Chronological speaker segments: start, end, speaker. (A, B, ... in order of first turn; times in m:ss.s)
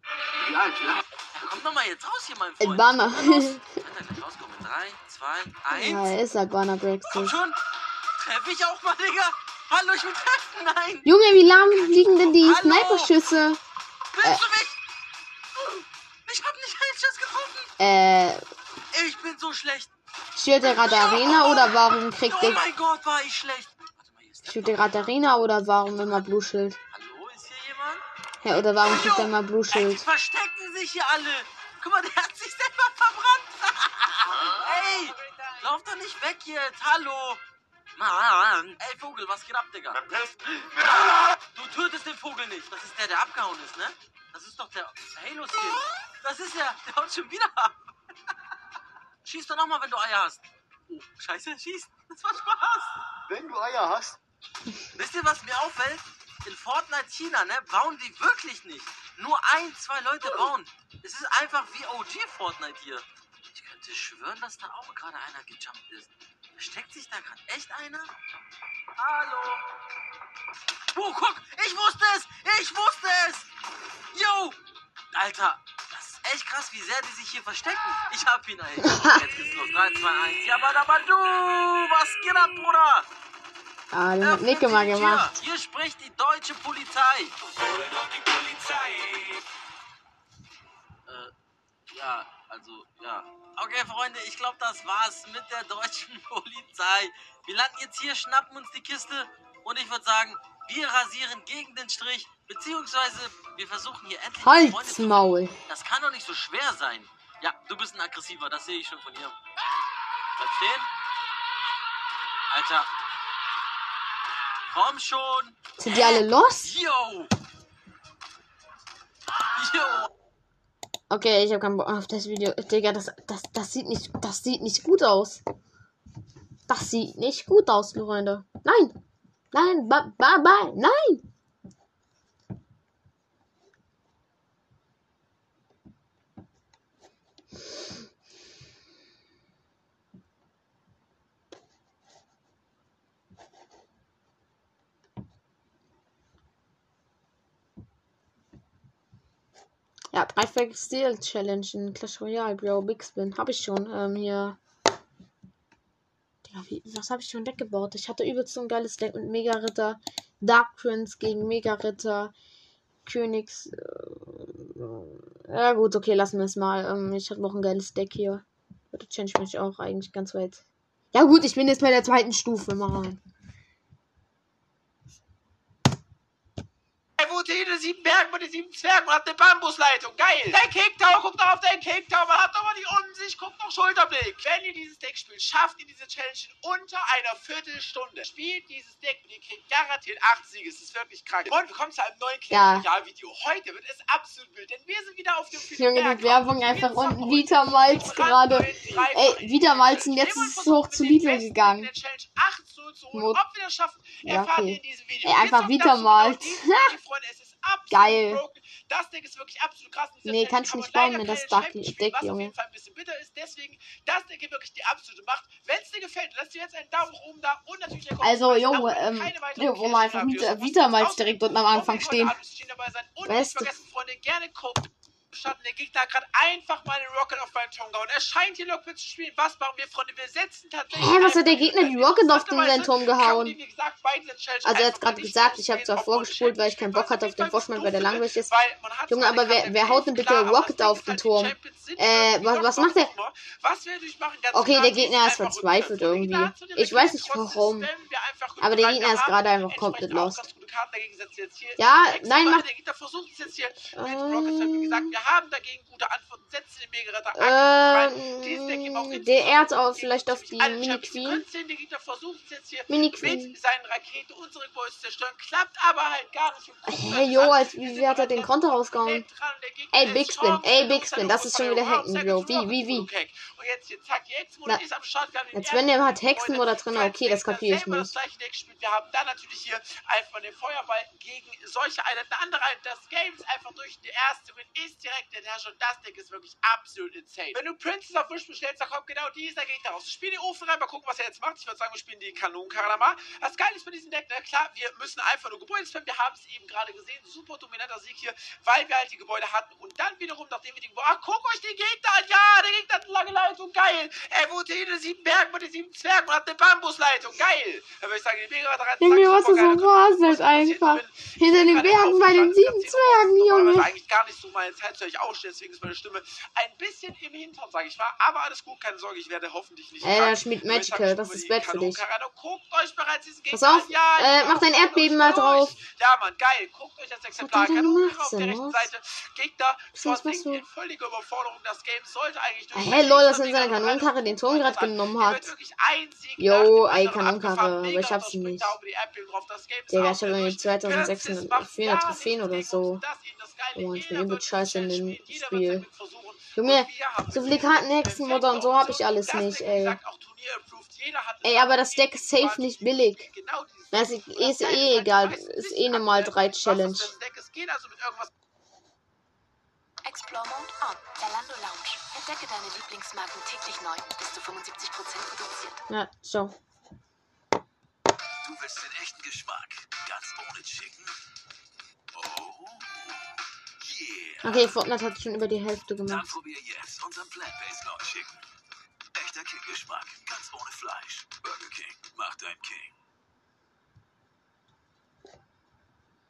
0:01.3-0:06.2 A
0:02.6-0:03.7 B
0:05.7-0:07.4 B
0:07.1-0:07.6 A
0:08.2-0:11.1 A
0:11.0-0:13.6 B
0:11.7-0:13.1 A
0:14.1-0:14.8 A
0:15.6-0:17.7 A
0:17.8-0:18.4 B
0:18.9-0:19.9 A
0:20.3-0:22.7 B
0:20.7-0:24.9 A
0:24.4-0:26.8 B
0:26.0-0:26.2 A
0:26.9-0:28.0 A
0:28.4-0:30.1 B
0:28.8-0:37.4 A
0:37.9-0:40.0 A
0:41.5-0:47.8 A
0:49.2-0:52.9 A
0:54.9-1:08.1 A
1:09.0-1:09.6 A
1:10.9-1:13.5 A
1:14.1-1:14.6 A
1:15.1-1:23.1 A
1:18.8-1:19.3 B
1:23.9-1:25.3 B
1:24.2-1:27.3 A
1:31.0-1:31.3 A
1:31.9-1:45.1 A
1:44.4-1:45.5 B
1:45.7-1:49.4 A
1:50.4-1:50.9 A
1:52.5-1:52.9 A
1:54.7-1:57.3 A
1:55.8-1:56.7 B
1:59.5-2:00.1 A
2:01.1-2:05.4 B
2:06.7-2:09.0 B
2:09.5-2:11.2 B
2:30.1-2:34.6 B
2:36.4-2:42.3 B
2:43.0-2:53.2 B
2:57.2-5:58.3 C
3:12.5-3:12.8 B
3:15.7-3:21.9 B
3:23.1-3:23.4 B
3:24.2-3:26.9 B
3:27.9-3:28.4 B
3:30.2-3:32.5 B
3:38.2-3:42.4 B
3:43.2-3:43.7 B
3:50.9-3:53.6 B
3:54.6-3:58.5 B
3:59.1-4:03.1 B
4:04.5-4:07.9 B
4:08.6-4:10.4 B
4:11.8-4:12.6 B
4:13.9-4:15.1 B
4:17.3-4:21.4 B
4:22.9-4:23.6 B
4:26.8-4:29.2 B
4:29.9-4:33.1 B
4:35.5-4:38.1 B
5:09.0-5:13.9 B
5:20.0-5:22.0 B
5:23.5-5:25.8 B
5:27.4-5:28.9 B
5:29.9-5:30.6 B
5:32.7-5:35.5 B
5:36.4-5:38.7 B
5:39.9-5:43.0 B
5:43.7-5:45.8 B
5:46.5-5:50.0 B
5:51.4-5:53.3 B
5:53.9-5:57.1 B
6:00.0-6:05.8 D
6:05.9-6:06.5 B
6:08.4-6:11.2 E
6:12.1-6:13.1 E
6:13.8-6:14.7 E
6:14.4-6:16.3 B
6:16.0-6:18.4 E
6:19.1-6:22.9 E